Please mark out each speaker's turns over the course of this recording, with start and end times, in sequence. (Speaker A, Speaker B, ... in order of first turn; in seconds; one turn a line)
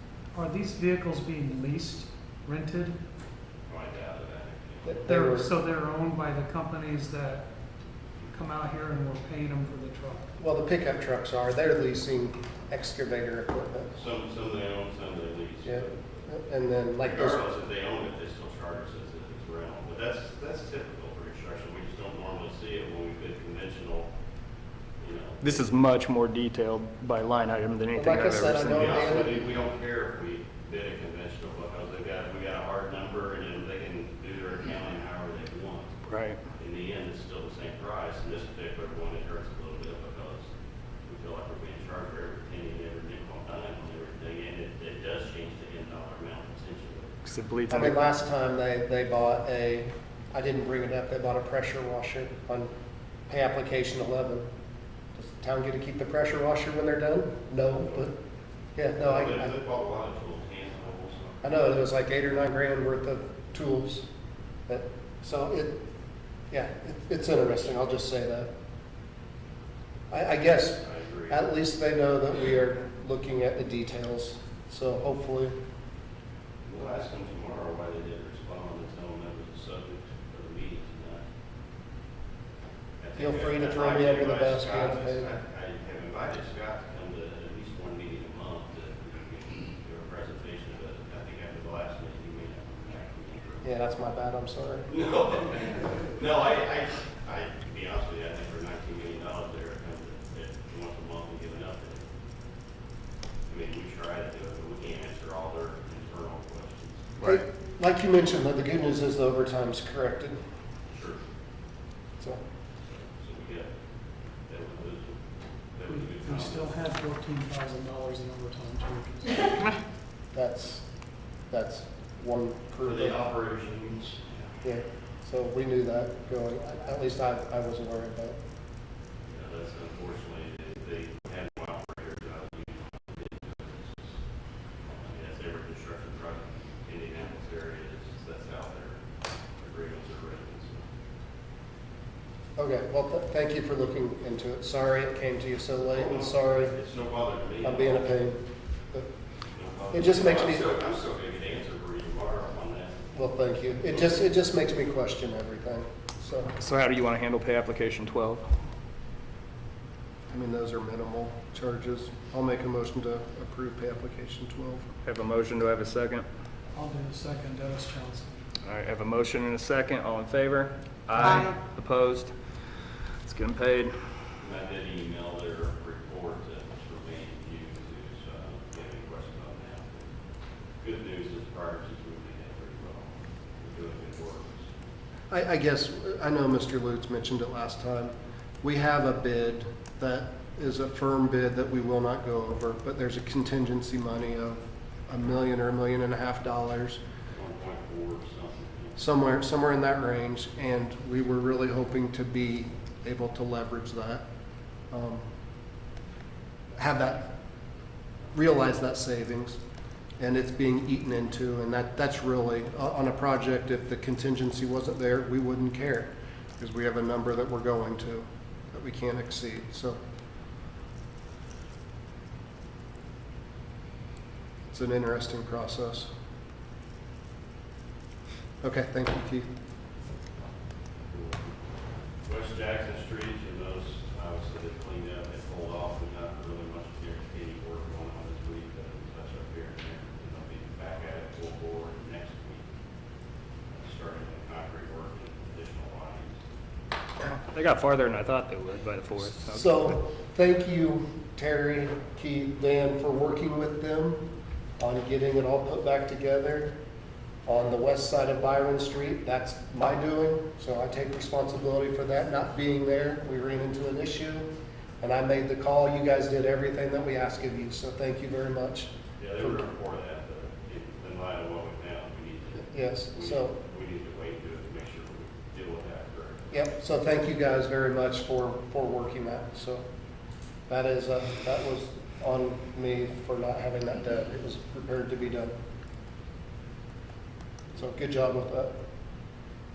Speaker A: 0.3-3.0
Speaker B: 3.7-5.0
Speaker C: 4.8-5.5
Speaker A: 5.1-7.5
Speaker A: 8.3-10.3
Speaker C: 10.4-13.9
Speaker B: 13.9-16.1
Speaker C: 15.6-17.4
Speaker B: 17.0-24.1
Speaker B: 25.0-25.5
Speaker D: 25.4-29.1
Speaker C: 27.9-29.4
Speaker B: 28.7-35.9
Speaker D: 36.1-36.4
Speaker B: 36.5-40.5
Speaker B: 41.0-47.1
Speaker D: 47.2-48.0
Speaker C: 47.7-52.7
Speaker C: 53.3-54.4
Speaker C: 55.1-58.1
Speaker C: 58.8-59.5
Speaker B: 59.0-61.4
Speaker C: 61.4-64.1
Speaker C: 64.7-65.8
Speaker C: 66.5-68.5
Speaker C: 70.1-75.5
Speaker B: 70.8-71.4
Speaker B: 76.6-81.2
Speaker B: 83.0-93.7
Speaker C: 83.2-85.3
Speaker C: 93.6-94.9
Speaker B: 94.9-102.0
Speaker B: 103.5-107.1
Speaker C: 107.2-110.4
Speaker B: 110.9-111.2
Speaker B: 112.9-113.7
Speaker B: 114.5-115.2
Speaker B: 115.7-116.7
Speaker A: 115.9-119.8
Speaker C: 120.3-120.8
Speaker C: 121.5-123.2
Speaker B: 122.8-124.5
Speaker C: 124.6-128.4
Speaker B: 129.3-134.2
Speaker B: 134.9-139.0
Speaker B: 139.6-140.9
Speaker C: 142.6-146.7
Speaker B: 145.9-148.1
Speaker C: 147.6-148.4
Speaker B: 149.5-153.0
Speaker C: 149.9-150.7
Speaker C: 153.1-156.5
Speaker D: 156.6-158.4
Speaker C: 160.3-164.9
Speaker D: 165.1-166.2
Speaker A: 166.7-168.3
Speaker D: 168.6-172.3
Speaker D: 173.2-173.9
Speaker B: 174.4-180.1
Speaker B: 180.8-184.7
Speaker C: 185.3-197.0
Speaker B: 197.3-199.0
Speaker C: 199.0-204.2
Speaker C: 204.9-205.2
Speaker C: 206.8-207.3
Speaker C: 208.3-209.6
Speaker C: 210.2-220.0
Speaker C: 224.7-226.1
Speaker C: 228.6-229.5
Speaker B: 231.0-231.5
Speaker B: 232.2-242.7
Speaker B: 243.7-246.3
Speaker D: 247.2-249.8
Speaker C: 249.5-254.2
Speaker C: 254.8-256.7
Speaker C: 257.4-264.4
Speaker C: 265.0-269.6
Speaker B: 269.2-276.4
Speaker C: 272.7-273.5
Speaker C: 276.5-279.8
Speaker C: 280.7-285.5
Speaker C: 287.8-288.7